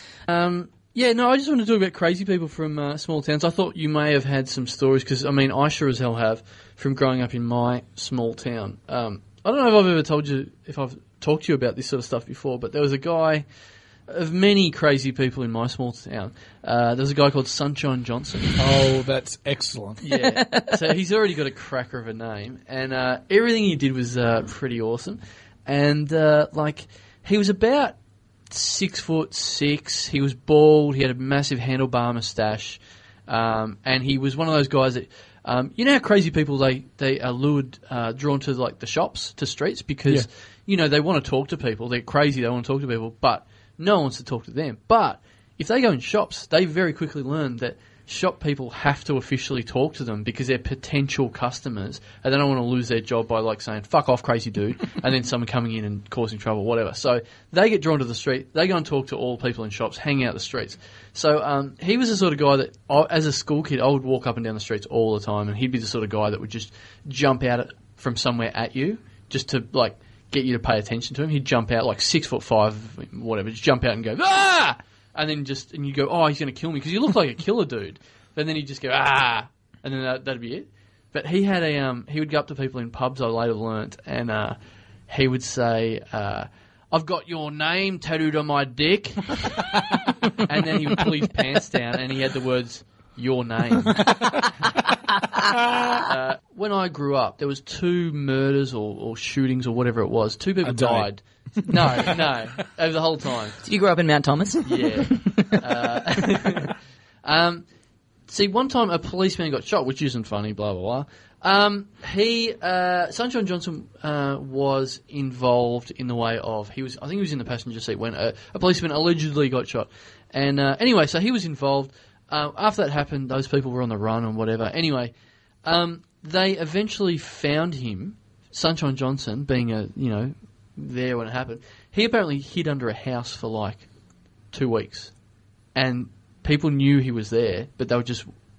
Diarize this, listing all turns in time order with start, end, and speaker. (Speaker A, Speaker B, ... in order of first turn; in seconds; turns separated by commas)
Speaker A: 0.3-13.4, Speaker A: 14.1-18.6, Speaker B: 18.6-20.0, Speaker A: 20.0-27.9, Speaker C: 20.1-20.8, Speaker A: 28.5-84.6, Speaker A: 85.1-94.2, Speaker A: 96.0-103.6, Speaker B: 100.6-101.1, Speaker B: 101.6-102.2, Speaker C: 103.6-105.5, Speaker A: 104.6-107.6, Speaker A: 108.3-125.1, Speaker A: 125.6-133.9, Speaker A: 134.5-135.1, Speaker A: 135.7-138.3